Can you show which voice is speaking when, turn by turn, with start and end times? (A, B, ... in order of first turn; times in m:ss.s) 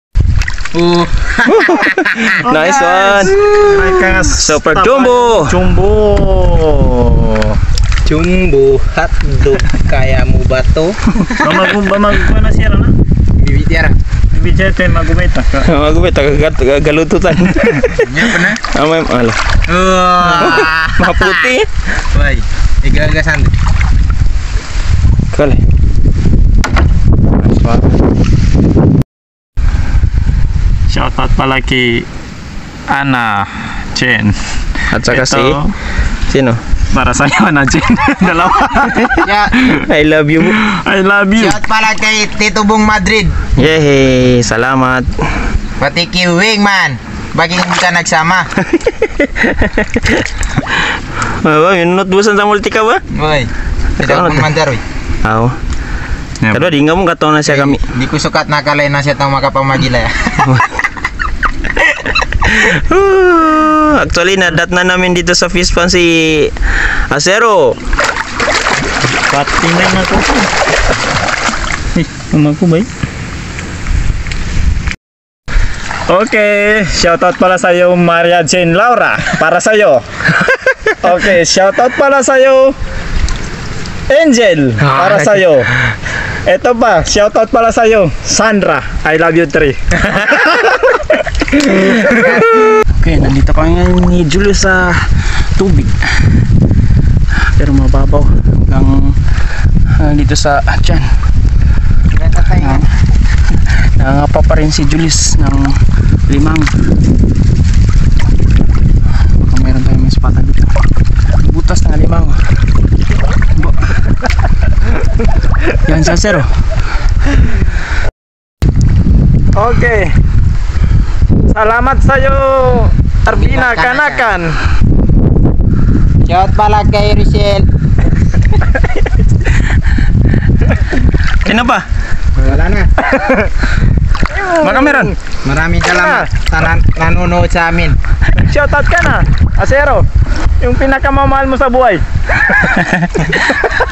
0:00.7-0:03.9 A
0:01.4-0:03.4 B
0:02.5-0:07.6 C
0:04.3-0:05.6 B
0:08.0-0:11.0 A
0:11.4-0:12.9 C
0:13.3-0:14.0 A
0:14.3-0:15.7 C
0:15.6-0:19.4 B
0:17.9-0:18.6 A
0:19.7-0:21.5 A
0:20.2-0:21.7 B
0:22.1-0:23.5 A
0:25.3-0:25.6 B
0:27.4-0:27.8 B
0:30.9-0:32.1 C
0:32.9-0:34.4 C
0:34.9-0:35.6 B
0:35.1-0:35.7 C
0:36.3-0:36.6 B
0:36.9-0:39.2 C
0:39.2-0:39.5 A
0:39.7-0:40.6 B
0:40.5-0:41.6 C
0:41.4-0:43.4 A
0:43.6-0:45.1 B
0:45.8-0:48.5 A
0:48.8-0:53.0 B
0:53.1-0:54.8 A
0:54.0-0:54.5 B
0:55.2-0:55.6 B
0:56.4-0:56.7 C
0:56.5-0:57.8 B
0:57.4-1:00.5 A
1:00.4-1:00.7 B
1:02.3-1:06.6 B
1:07.1-1:07.8 B
1:09.3-1:10.5 C
1:12.2-1:12.9 B
1:16.1-1:20.0 C
1:20.9-1:22.8 C
1:24.1-1:25.7 C
1:24.8-1:25.4 B
1:26.4-1:32.2 C
1:32.1-1:32.4 A
1:33.0-1:36.0 B
1:37.4-1:39.2 B
1:39.9-1:41.1 B
1:42.1-1:42.8 A
1:42.6-1:42.9 B
1:43.8-1:46.7 B
1:49.2-1:50.7 B
1:51.4-1:52.4 B
1:53.6-1:54.0 B
1:55.8-1:56.5 B
1:59.5-2:00.2 C
2:01.5-2:04.6 C
2:03.3-2:04.3 A
2:06.2-2:07.7 A
2:11.4-2:11.9 B
2:12.4-2:12.9 A
2:13.0-2:13.5 C
2:14.3-2:15.1 C
2:14.6-2:15.1 B
2:15.4-2:18.0 A
2:15.9-2:16.3 C
2:18.3-2:20.0 C
2:20.6-2:22.0 C